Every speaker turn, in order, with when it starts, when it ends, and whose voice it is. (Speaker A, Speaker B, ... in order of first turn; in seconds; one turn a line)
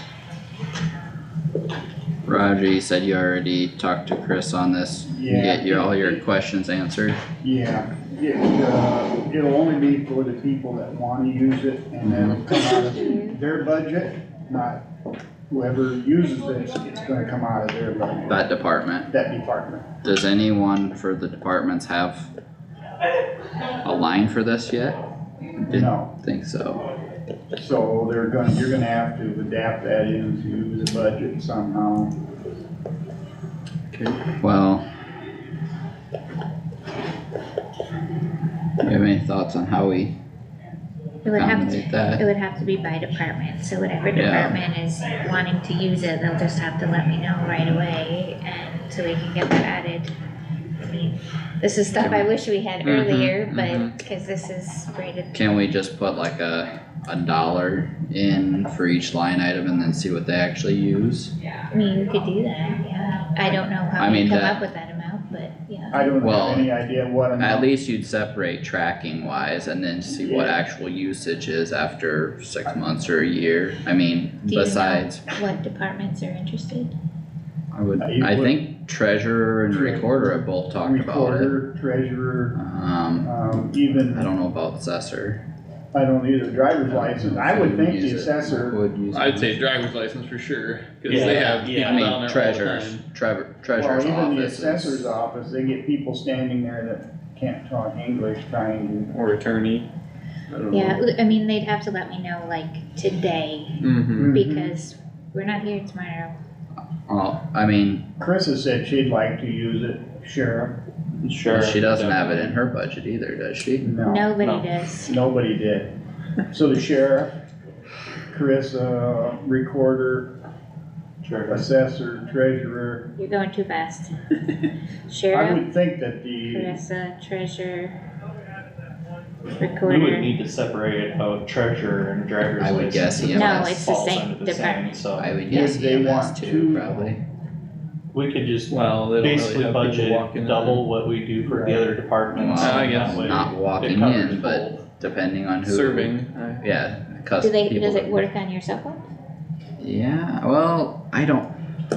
Speaker A: 2.3-7.2
Speaker B: 5.1-6.2
Speaker B: 7.4-14.8
Speaker A: 12.0-12.4
Speaker C: 12.4-13.4
Speaker B: 15.5-18.4
Speaker A: 18.3-19.1
Speaker B: 19.1-19.9
Speaker A: 20.0-22.3
Speaker A: 23.8-25.0
Speaker A: 25.6-26.9
Speaker B: 25.7-26.1
Speaker B: 27.5-32.1
Speaker A: 34.2-34.9
Speaker A: 38.8-40.1
Speaker C: 41.2-50.1
Speaker A: 41.3-42.3
Speaker A: 44.1-44.6
Speaker C: 50.8-55.4
Speaker A: 52.0-52.3
Speaker D: 52.8-54.0
Speaker A: 55.3-61.3
Speaker C: 61.7-66.2
Speaker A: 64.0-64.6
Speaker B: 65.9-67.7
Speaker A: 66.2-66.7
Speaker A: 67.4-75.3
Speaker B: 70.1-70.6
Speaker C: 74.5-76.9
Speaker A: 77.7-81.5
Speaker B: 78.0-78.6
Speaker B: 79.7-82.6
Speaker A: 82.5-83.3
Speaker B: 83.2-84.3
Speaker A: 84.1-85.4
Speaker B: 85.9-88.8
Speaker A: 86.9-89.6
Speaker D: 89.1-93.0
Speaker E: 91.1-92.3
Speaker A: 91.1-95.2
Speaker B: 93.8-99.1
Speaker D: 99.1-99.9
Speaker D: 100.5-101.0
Speaker C: 100.7-106.4
Speaker D: 103.8-104.4
Speaker B: 104.2-104.8
Speaker A: 107.1-108.1
Speaker B: 108.2-110.8
Speaker E: 111.2-112.3
Speaker A: 111.5-113.9
Speaker D: 112.2-112.5
Speaker B: 113.8-114.4
Speaker C: 114.0-115.2
Speaker E: 114.4-114.7
Speaker B: 115.0-115.9
Speaker B: 116.5-117.3
Speaker B: 118.3-120.3
Speaker E: 121.2-121.7
Speaker B: 121.5-123.1
Speaker C: 123.2-124.2
Speaker C: 125.1-125.7
Speaker B: 125.3-126.8
Speaker C: 126.4-128.0
Speaker C: 129.5-130.4
Speaker E: 129.8-135.4
Speaker A: 132.6-133.8
Speaker C: 133.3-135.0
Speaker A: 135.2-137.2
Speaker B: 135.5-137.2
Speaker E: 138.1-144.8
Speaker D: 138.7-140.9
Speaker B: 141.5-141.9
Speaker A: 142.3-148.3
Speaker D: 142.6-143.5
Speaker D: 145.6-146.6
Speaker C: 147.4-149.0
Speaker A: 149.8-151.5